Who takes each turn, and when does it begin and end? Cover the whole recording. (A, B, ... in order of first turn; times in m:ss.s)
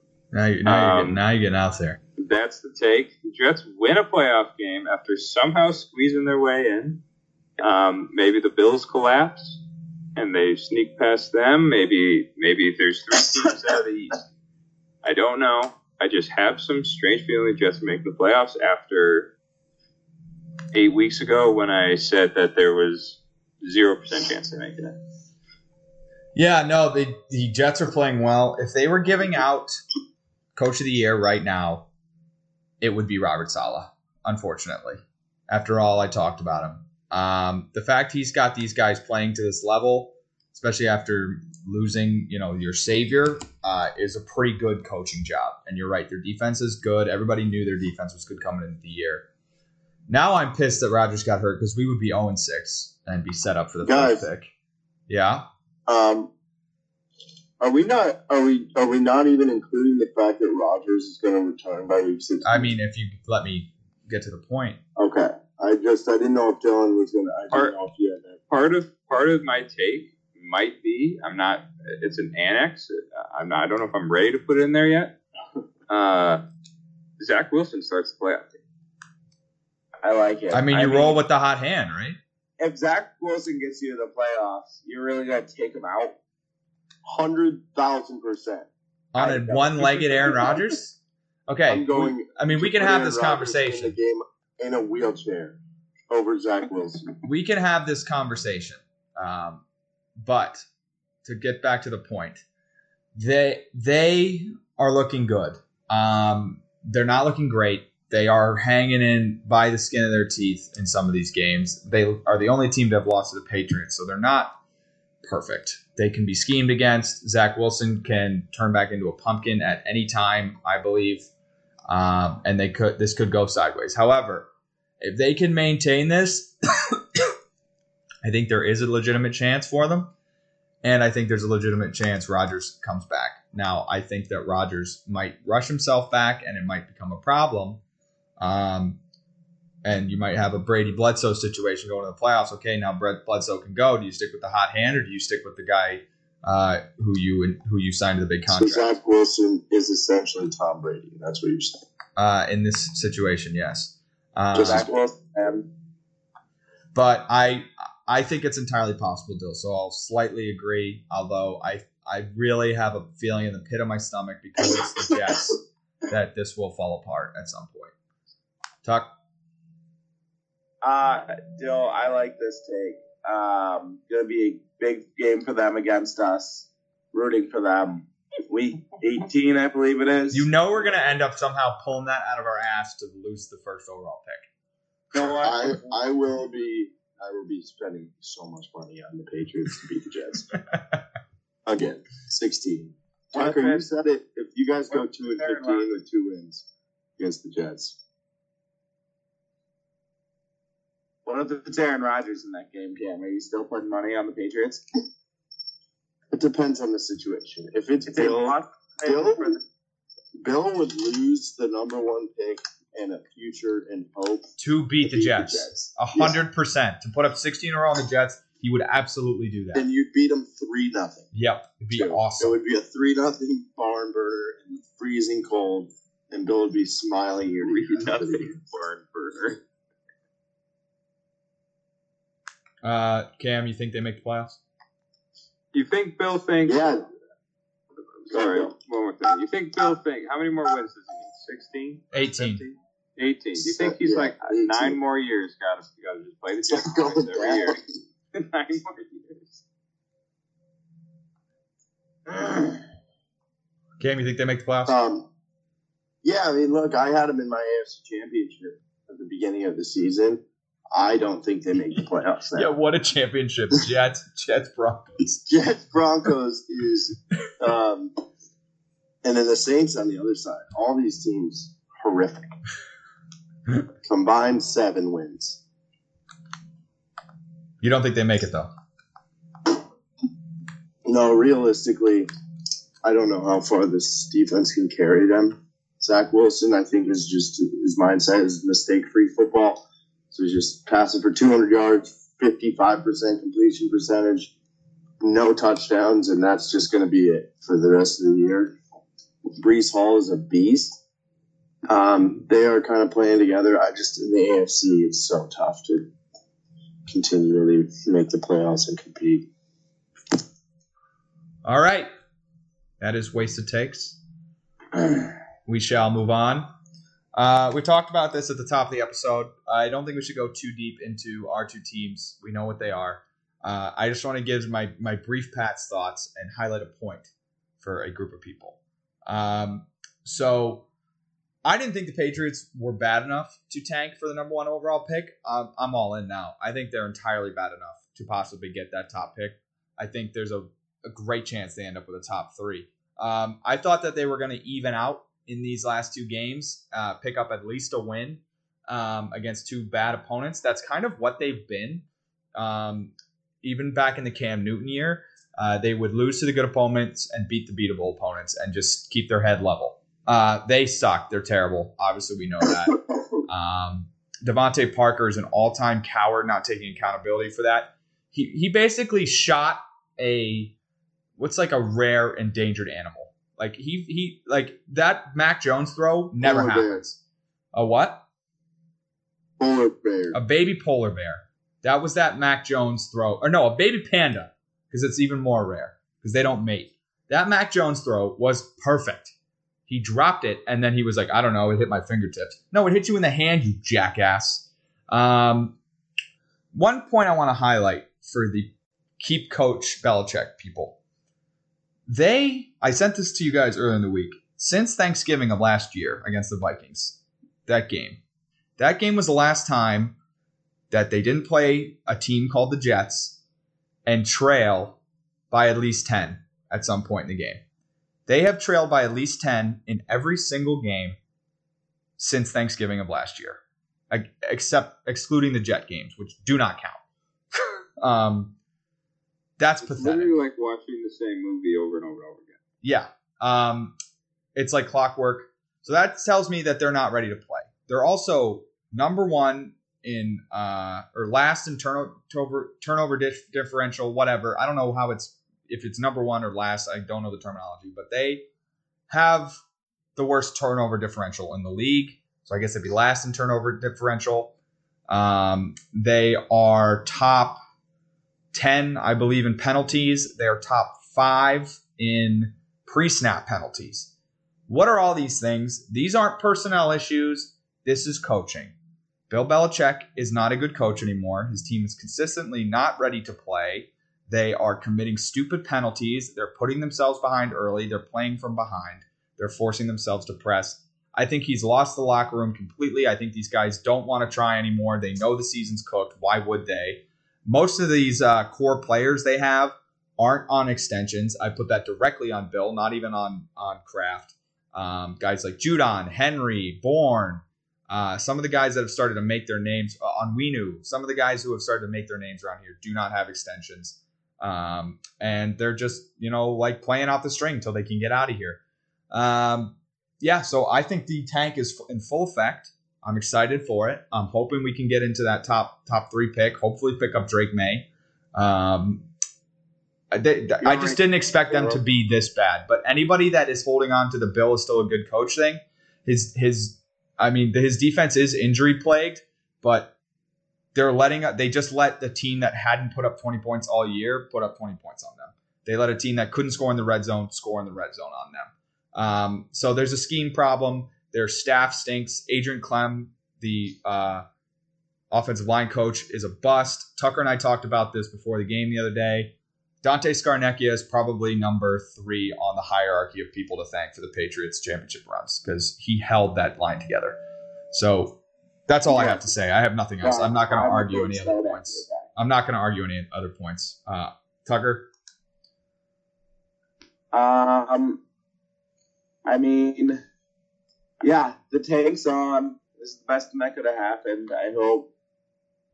0:00.3-0:02.0 A
0:00.6-0:01.2 B
0:02.2-0:07.0 B
0:07.6-0:09.6 B
0:10.2-0:14.2 B
0:15.0-0:19.3 B
0:20.7-0:25.0 B
0:26.3-0:29.8 A
0:30.6-0:31.9 A
0:32.8-0:49.2 A
0:50.1-0:54.5 A
0:53.8-0:54.3 C
0:55.1-0:55.4 A
0:55.9-0:56.3 C
0:57.6-1:02.7 C
1:02.4-1:04.8 A
1:05.0-1:08.4 C
1:08.5-1:15.1 B
1:15.9-1:16.4 B
1:17.2-1:18.6 B
1:20.0-1:21.2 D
1:20.5-1:22.2 A
1:22.6-1:26.2 D
1:27.0-1:28.7 C
1:29.1-1:31.0 A
1:29.2-1:29.6 C
1:29.3-1:30.6 D
1:30.2-1:30.6 C
1:31.5-1:34.0 A
1:31.7-1:35.6 C
1:36.1-1:37.1 C
1:37.2-1:39.6 A
1:40.2-1:40.6 A
1:41.2-1:42.4 A
1:43.1-1:54.5 A
1:55.2-2:01.3 A
2:01.9-2:04.5 A
2:05.0-2:07.2 A
2:08.2-2:10.1 A
2:10.8-2:17.8 A
2:18.4-2:19.0 A
2:19.8-2:29.0 A
2:28.5-2:31.8 C
2:32.2-2:34.9 A
2:34.5-2:35.1 C
2:34.6-2:35.6 D
2:36.9-2:47.9 A
2:50.8-3:00.5 D
3:00.3-3:04.4 A
3:05.1-3:06.0 D
3:05.4-3:10.5 C
3:11.6-3:16.6 C
3:13.3-3:13.9 D
3:14.9-3:15.9 D
3:17.2-3:18.0 C
3:21.2-3:24.8 D
3:26.3-3:29.6 C
3:28.1-3:29.6 D
3:30.3-3:34.5 C
3:34.6-3:39.8 A
3:35.0-3:36.4 C
3:39.7-3:41.3 C
3:41.3-3:42.5 A
3:41.9-3:48.5 C
3:47.6-3:49.6 B
3:52.8-3:54.6 A
3:55.7-3:57.0 B
3:56.6-3:57.1 C
3:58.3-3:58.7 C
3:58.3-4:07.8 B
4:02.1-4:02.6 A
4:03.6-4:05.0 C
4:06.7-4:07.8 C
4:08.3-4:09.6 B
4:14.0-4:15.0 A
4:14.9-4:15.3 C
4:16.2-4:22.7 C
4:22.5-4:25.5 A
4:25.5-4:28.1 C
4:29.2-4:32.5 C
4:34.0-4:35.6 C
4:37.8-4:38.7 A
4:41.0-4:42.3 C
4:43.0-4:54.5 C
4:55.2-4:58.7 C
4:59.5-5:01.0 C
5:01.9-5:06.1 C
5:07.1-5:09.4 C
5:11.6-5:12.1 A
5:13.0-5:14.2 A
5:15.6-5:16.6 A
5:17.3-5:27.3 A
5:27.8-5:30.9 A
5:31.6-5:53.1 A
5:53.6-6:10.7 A
6:11.4-6:17.2 A
6:16.4-6:17.0 C
6:17.7-6:18.2 A
6:19.6-6:20.4 C
6:20.3-6:29.3 A
6:29.9-6:35.7 A
6:36.7-6:41.0 A
6:42.1-6:48.2 A
6:48.8-6:50.1 A
6:50.9-6:53.4 A
6:54.0-6:55.0 A
6:55.5-6:57.6 A
6:58.3-7:01.2 A
7:02.2-7:07.0 A
7:07.6-7:08.5 A
7:09.6-7:10.3 A
7:09.8-7:12.6 B
7:12.8-7:13.9 A
7:14.6-7:28.4 A
7:29.1-7:29.6 A
7:30.2-7:34.5 A
7:35.1-7:37.6 A
7:38.5-7:44.1 A
7:44.7-7:48.7 A
7:49.3-8:28.6 A
8:29.1-8:39.0 A
8:40.1-8:49.9 A
8:40.6-8:41.0 D
8:41.5-8:41.8 D
8:50.7-9:04.2 A
9:05.1-9:17.2 A
9:17.7-9:24.9 A
9:18.9-9:19.2 D
9:20.0-9:22.1 D
9:27.1-9:28.0 D
9:29.2-9:30.0 D
9:31.0-9:34.9 D